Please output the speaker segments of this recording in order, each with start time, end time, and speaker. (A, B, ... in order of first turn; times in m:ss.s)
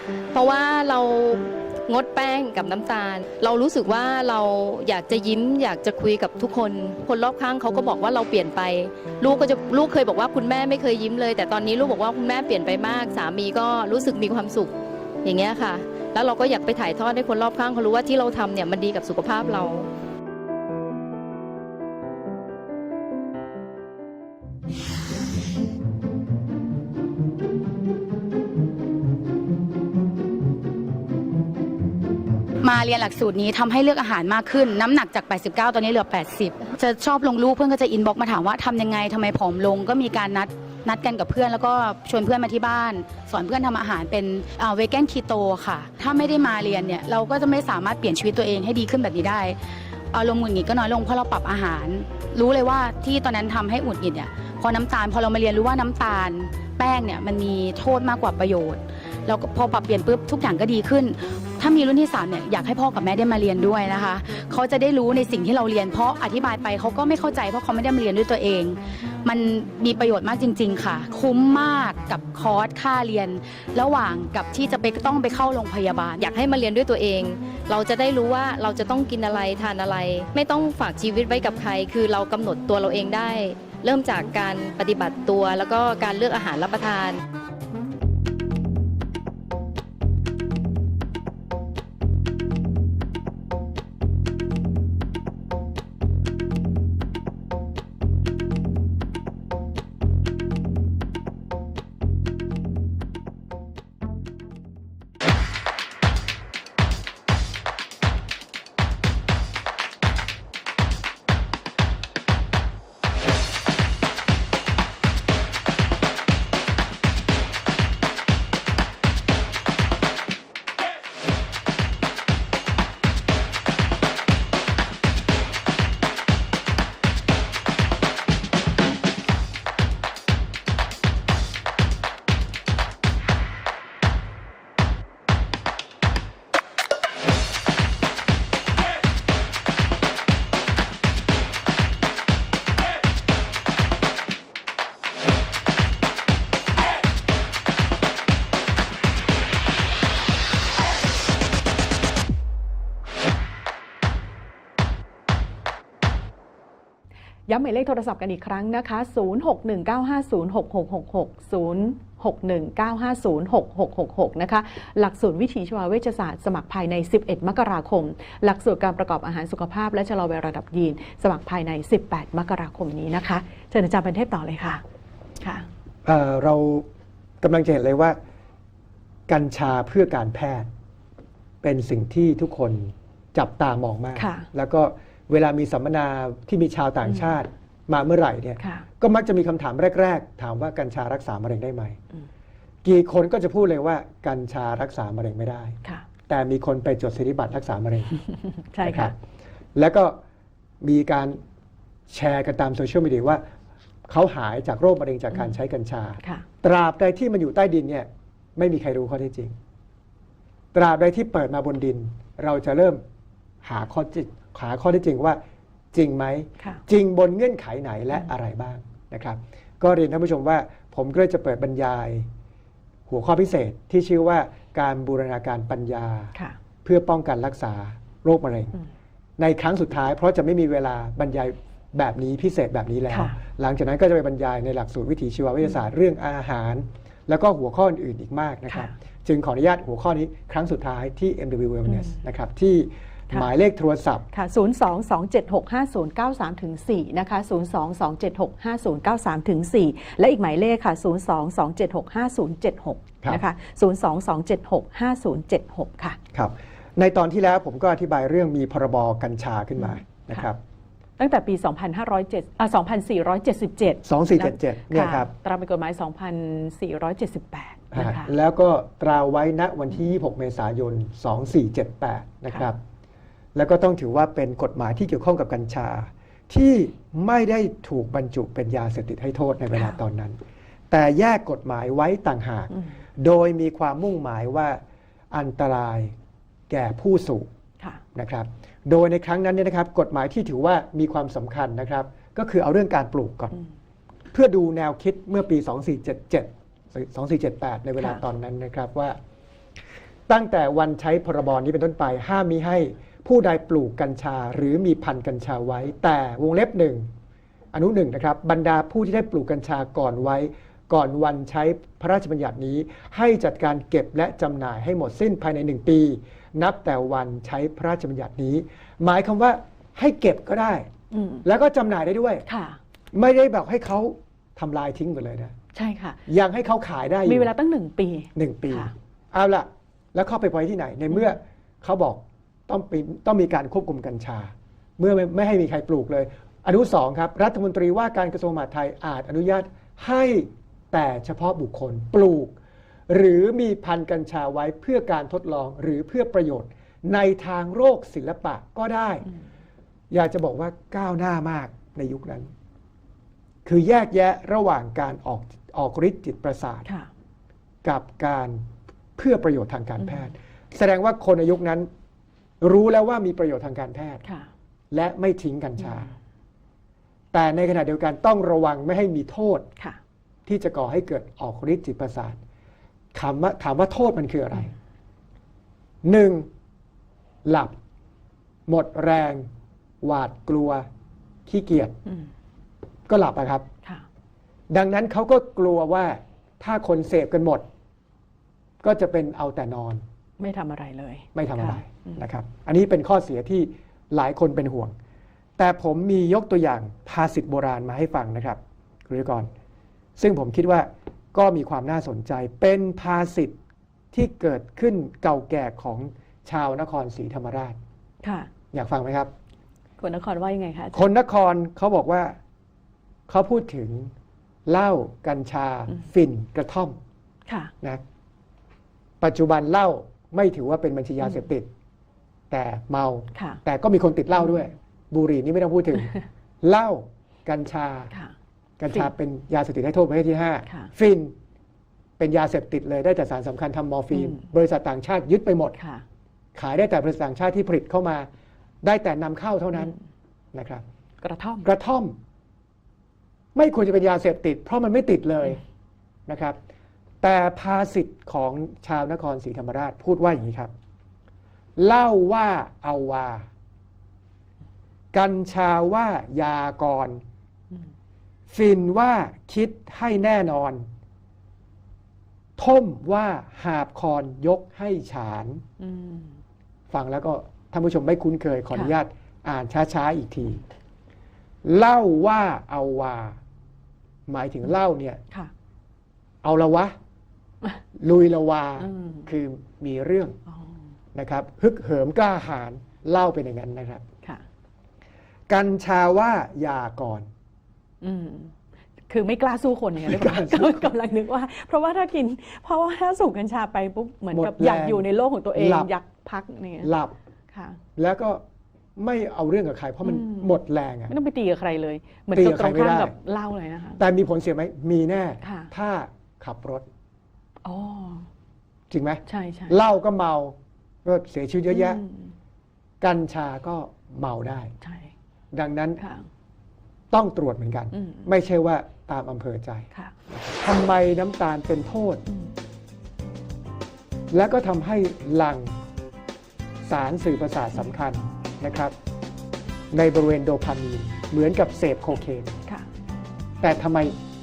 0:00.3-0:19.9 A
0:32.6-1:16.3 B
1:16.2-1:27.2 A
2:37.5-2:54.8 C
2:55.4-2:55.7 C
2:56.0-2:56.9 D
2:57.4-2:58.2 D
2:59.3-3:00.7 D
3:01.6-3:12.0 D
3:04.2-3:04.5 C
3:08.6-3:08.8 C
3:12.8-3:18.2 D
3:18.7-3:19.1 C
3:18.8-3:19.2 D
3:19.7-3:20.2 D
3:20.8-3:21.4 D
3:22.1-3:23.4 D
3:24.1-3:29.6 D
3:30.7-3:33.0 D
3:33.6-3:35.4 D
3:35.9-3:42.3 D
3:43.1-3:46.3 D
3:46.8-3:48.8 D
3:49.4-4:04.3 D
3:53.1-3:53.4 C
4:04.3-4:16.2 C
4:16.3-4:20.6 D
4:19.8-4:20.5 C
4:21.2-4:28.3 C
4:24.0-4:25.3 D
4:27.9-4:32.8 D
4:33.5-4:40.4 D
4:40.9-4:46.1 D
4:46.7-4:47.5 D
4:48.1-4:53.5 D
4:54.3-4:59.2 D
5:00.3-5:07.1 D
5:07.7-5:20.9 D
5:21.1-5:21.4 C
5:21.4-5:22.4 D
5:22.5-5:22.8 C
5:23.1-5:25.5 D
5:25.7-5:26.2 C
5:26.3-5:27.5 D
5:27.2-5:28.9 C
5:28.3-5:42.6 D
5:43.1-5:49.2 D
5:50.1-5:52.5 D
5:53.6-5:56.9 D
5:57.8-5:58.6 D
5:59.2-6:01.9 D
6:02.6-6:04.2 D
6:04.9-6:06.1 D
6:07.3-6:09.7 D
6:10.4-6:12.4 D
6:13.1-6:14.7 D
6:16.0-6:16.5 D
6:17.4-6:17.8 D
6:18.7-6:19.5 D
6:20.0-6:20.8 D
6:21.4-6:22.0 D
6:23.1-6:23.7 D
6:24.7-6:27.6 D
6:28.8-6:30.0 D
6:30.4-6:32.2 C
6:31.3-6:34.9 D
6:35.6-6:39.5 D
6:40.2-6:43.6 D
6:44.1-6:47.8 D
6:48.2-6:48.5 C
6:48.7-6:49.3 D
6:50.0-6:51.0 C
6:50.9-6:52.4 D
6:53.3-6:54.1 D
6:54.6-6:57.0 D
6:57.5-6:57.7 C
6:59.2-7:01.7 D
7:02.5-7:08.1 D
7:03.3-7:03.6 C
7:08.8-7:11.3 D
7:12.2-7:15.8 D
7:14.1-7:14.4 C
7:15.8-7:16.0 C
7:16.5-7:18.3 D
7:18.8-7:19.9 D
7:20.5-7:20.8 D
7:21.2-7:21.7 C
7:21.6-7:22.2 D
7:23.5-7:25.6 D
7:26.3-7:26.6 D
7:27.2-7:30.7 D
7:31.8-7:33.5 D
7:35.1-7:37.2 D
7:38.5-7:40.9 D
7:42.6-7:45.6 D
7:45.8-7:46.3 C
7:46.9-7:50.6 D
7:51.6-7:53.4 D
7:54.3-7:55.2 D
7:56.4-7:56.9 D
7:58.0-8:00.4 D
7:58.8-7:59.3 C
8:01.1-8:04.0 D
8:05.5-8:07.3 D
8:08.0-8:08.5 C
8:09.1-8:16.9 C
8:10.0-8:10.9 D
8:14.3-8:15.9 D
8:16.8-8:17.1 D
8:17.5-8:17.8 C
8:18.0-8:18.4 D
8:19.0-8:21.1 D
8:20.0-8:20.5 C
8:21.1-8:24.0 C
8:22.3-8:23.1 D
8:24.0-8:26.9 D
8:25.4-8:25.7 C
8:27.6-8:28.3 C
8:28.9-8:32.0 D
8:29.3-8:29.8 C
8:31.7-8:32.3 C
8:33.0-8:34.7 D
8:34.8-8:35.1 C
8:35.5-8:36.0 D
8:36.0-8:36.2 C
8:37.1-8:42.2 D
8:37.9-8:38.2 C
8:44.3-8:45.8 D
8:46.8-8:48.9 D
8:49.9-8:52.6 D
8:53.6-8:54.2 D